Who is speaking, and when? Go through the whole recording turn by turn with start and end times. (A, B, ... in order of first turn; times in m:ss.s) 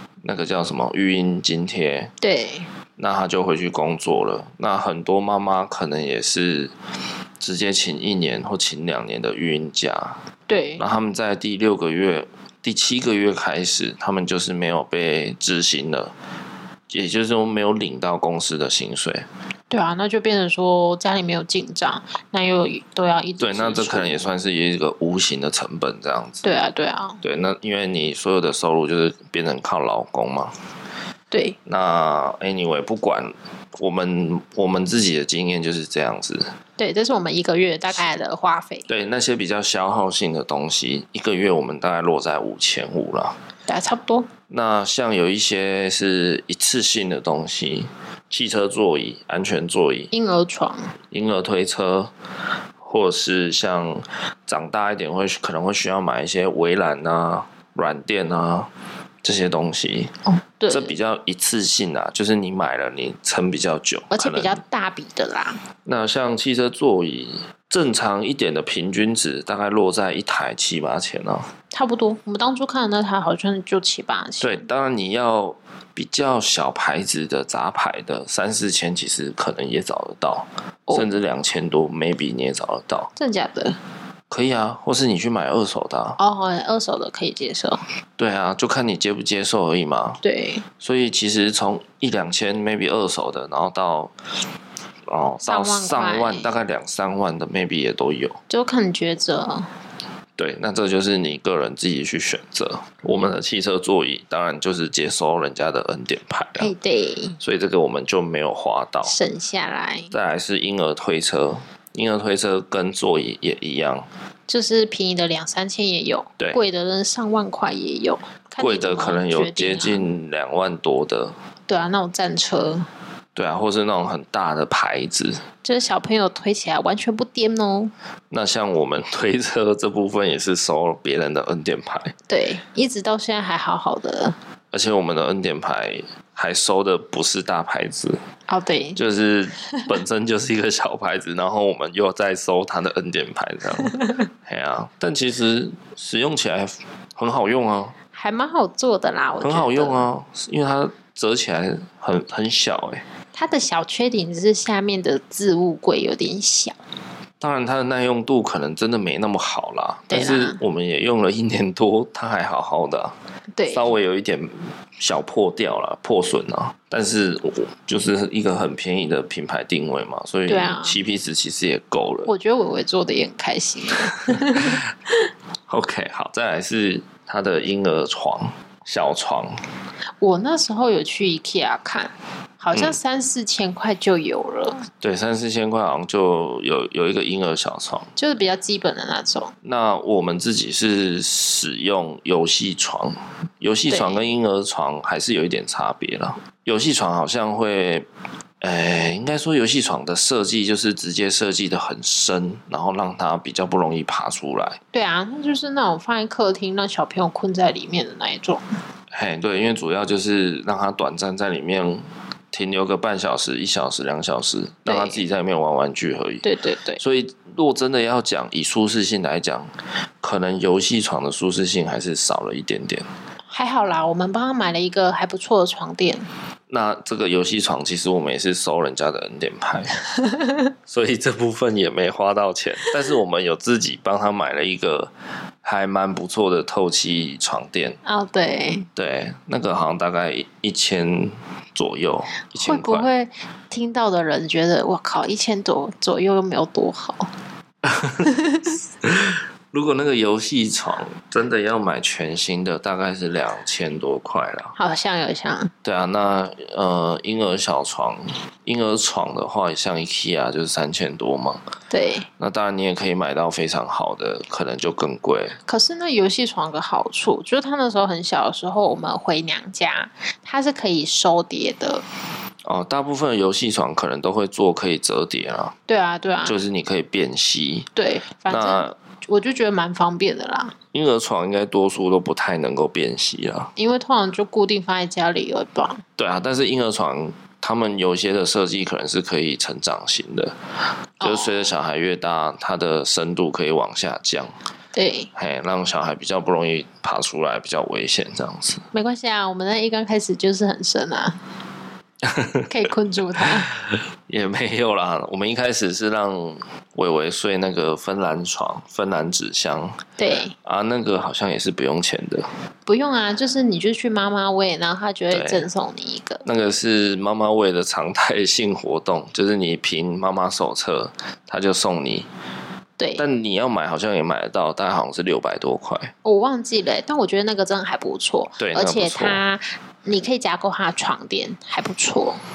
0:00.2-0:02.1 A
0:02.2-0:02.7 B
0:03.0-0:06.7 A
0:07.4-0:10.2 A
0:10.5-0:10.8 B
0:10.8-0:16.1 A
0:16.9-0:19.3 A
0:19.7-0:24.3 B
0:23.4-0:26.4 A
0:26.4-0:27.2 B
0:27.2-0:30.5 A
0:31.3-0:31.6 B
0:31.6-0:36.5 A
0:36.8-0:38.9 B
0:38.9-0:43.4 A
0:43.7-0:44.3 B
0:44.5-0:50.1 A
0:50.1-0:50.9 B
0:51.1-0:52.1 A
0:52.8-0:58.7 A
0:59.2-1:00.1 A
1:00.3-1:00.9 B
1:00.7-1:04.6 A
1:04.1-1:05.6 B
1:05.8-1:11.5 A
1:11.7-1:14.6 B
1:14.4-1:23.1 A
1:23.2-1:23.8 B
1:24.3-1:26.2 A
1:26.2-1:27.8 B
1:28.2-1:30.2 A
1:30.2-1:30.6 B
1:30.8-1:34.1 A
1:35.1-1:38.4 A
1:35.4-1:36.5 B
1:38.5-1:39.7 B
1:40.4-1:46.7 A
1:46.6-1:47.4 B
1:47.4-1:49.1 A
1:49.0-1:50.1 B
1:50.1-1:54.1 A
1:54.5-2:00.0 B
1:58.6-2:01.3 A
2:01.7-2:02.9 B
2:03.3-2:05.4 A
2:05.6-2:07.9 B
2:08.3-2:12.1 A
2:12.3-2:14.4 B
2:14.7-2:18.2 A
2:18.5-2:19.0 B
2:19.0-2:27.9 A
2:28.1-2:30.1 B
2:29.4-2:33.0 A
2:33.3-2:36.8 B
2:37.4-2:43.1 A
2:40.1-2:40.6 B
2:43.5-2:43.9 B
2:43.7-2:52.3 A
2:50.5-2:51.0 B
2:52.2-2:54.8 B
2:54.3-2:54.6 A
2:55.7-2:59.6 A
3:00.2-3:04.9 B
3:05.0-3:08.1 A
3:08.2-3:09.5 B
3:09.6-3:18.1 A
3:13.9-3:14.2 B
3:18.6-3:24.8 A
3:24.9-3:28.6 B
3:29.1-3:36.4 A
3:34.8-3:35.2 B
3:36.4-3:37.0 B
3:37.0-3:39.7 A
3:40.2-3:43.1 A
3:43.5-3:46.3 B
3:46.7-3:50.0 A
3:50.2-3:50.6 B
3:50.9-3:55.1 A
3:55.6-3:58.0 A
3:58.0-3:58.9 B
3:59.0-4:03.1 A
4:02.6-4:07.3 B
4:07.8-4:08.3 A
4:08.2-4:08.7 B
4:09.0-4:14.7 A
4:14.7-4:15.7 B
4:15.8-4:21.6 A
4:21.9-4:22.3 B
4:22.4-4:25.6 A
4:25.6-4:32.0 B
4:32.6-4:35.7 A
4:35.9-4:36.6 B
4:36.4-4:37.9 A
4:38.0-4:40.8 B
4:38.5-4:38.9 A
4:40.9-4:43.7 A
4:43.8-4:46.0 B
4:46.2-4:50.6 A
4:51.2-4:51.7 B
4:51.2-4:54.5 A
4:54.9-4:55.3 B
4:55.3-4:58.8 A
4:58.9-5:01.4 B
5:02.2-5:02.7 A
5:02.7-5:03.7 B
5:03.4-5:10.0 A
5:10.2-5:10.5 B
5:10.6-5:12.5 A
5:12.8-5:16.4 B
5:15.3-5:15.6 A
5:16.4-5:22.3 A
5:23.0-5:23.2 B
5:23.2-5:26.1 A
5:26.2-5:32.4 B
5:28.6-5:29.4 A